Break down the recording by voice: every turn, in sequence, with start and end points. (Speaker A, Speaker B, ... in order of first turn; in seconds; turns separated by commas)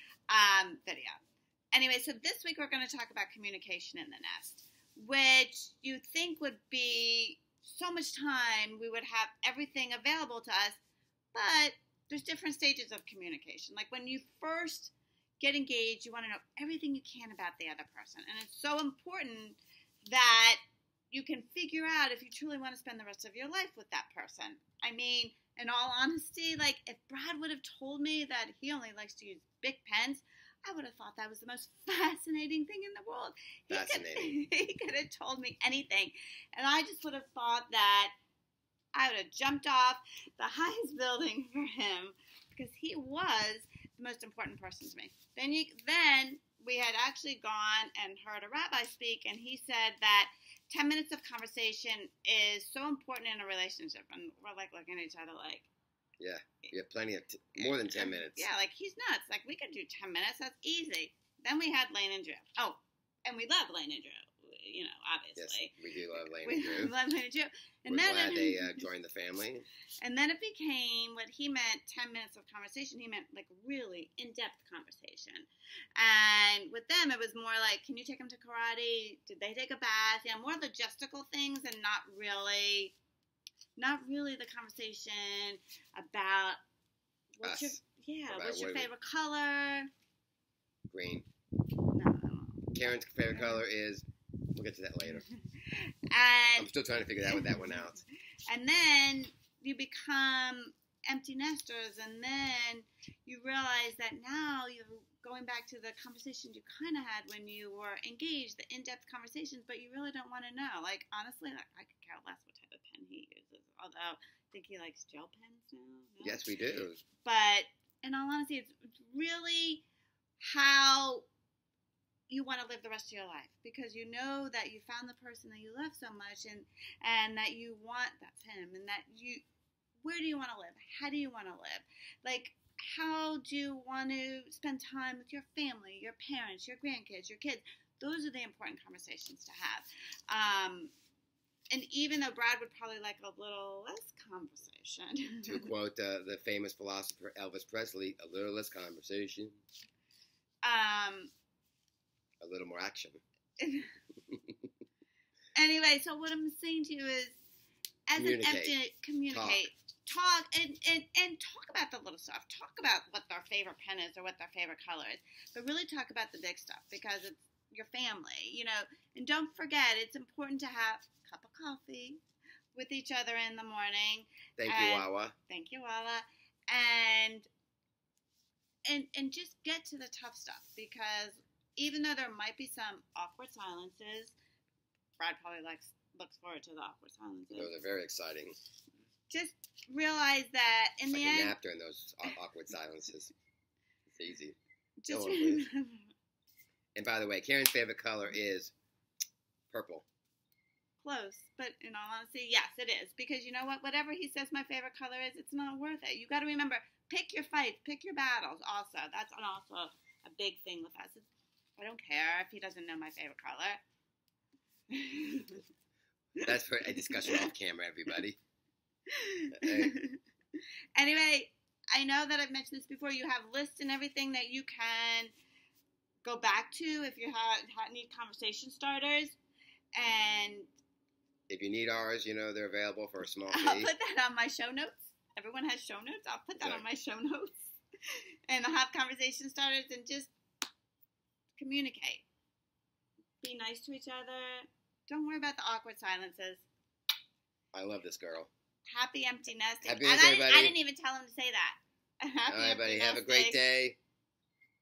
Speaker A: 0.3-1.2, Speaker A: 1.7-10.8, Speaker A: 11.3-38.1, Speaker B: 33.7-34.4, Speaker A: 38.9-55.7, Speaker B: 56.2-58.5, Speaker A: 57.6-68.9, Speaker B: 65.4-66.9, Speaker B: 67.9-69.7, Speaker A: 70.0-82.9, Speaker A: 83.8-86.6, Speaker A: 87.4-89.9, Speaker B: 87.4-88.9, Speaker B: 90.9-91.3, Speaker A: 91.9-93.7, Speaker B: 92.7-95.3, Speaker A: 95.0-96.7, Speaker B: 96.6-98.0, Speaker A: 97.3-97.9, Speaker A: 98.5-116.5, Speaker B: 116.2-117.0, Speaker A: 117.2-119.8, Speaker A: 120.4-121.3, Speaker A: 122.3-129.4, Speaker A: 130.0-140.9, Speaker A: 141.7-145.7, Speaker B: 145.5-149.6, Speaker A: 150.6-151.3, Speaker B: 152.4-153.2, Speaker A: 153.6-153.9, Speaker A: 155.6-157.4, Speaker A: 158.1-172.2, Speaker B: 158.2-158.8, Speaker B: 159.3-159.6, Speaker A: 172.8-177.5, Speaker B: 174.6-175.3, Speaker A: 178.9-184.3, Speaker A: 185.2-187.7, Speaker B: 187.5-188.6, Speaker A: 189.3-191.6, Speaker B: 191.1-193.3, Speaker B: 194.1-194.6, Speaker A: 195.0-196.1, Speaker B: 195.1-195.6, Speaker B: 197.0-198.7, Speaker B: 199.7-200.1, Speaker A: 201.0-211.3, Speaker A: 211.8-213.8, Speaker A: 214.9-215.6, Speaker A: 216.4-217.5, Speaker B: 216.4-218.4, Speaker A: 219.1-220.2, Speaker B: 219.6-220.0, Speaker A: 220.9-225.3, Speaker A: 226.2-229.4, Speaker A: 230.0-230.7, Speaker B: 231.5-233.9, Speaker A: 233.5-237.7, Speaker B: 236.6-236.8, Speaker A: 238.5-240.3, Speaker A: 241.6-242.2, Speaker A: 243.4-246.7, Speaker B: 247.7-248.5, Speaker A: 248.9-253.6, Speaker B: 249.8-250.8, Speaker B: 252.5-254.0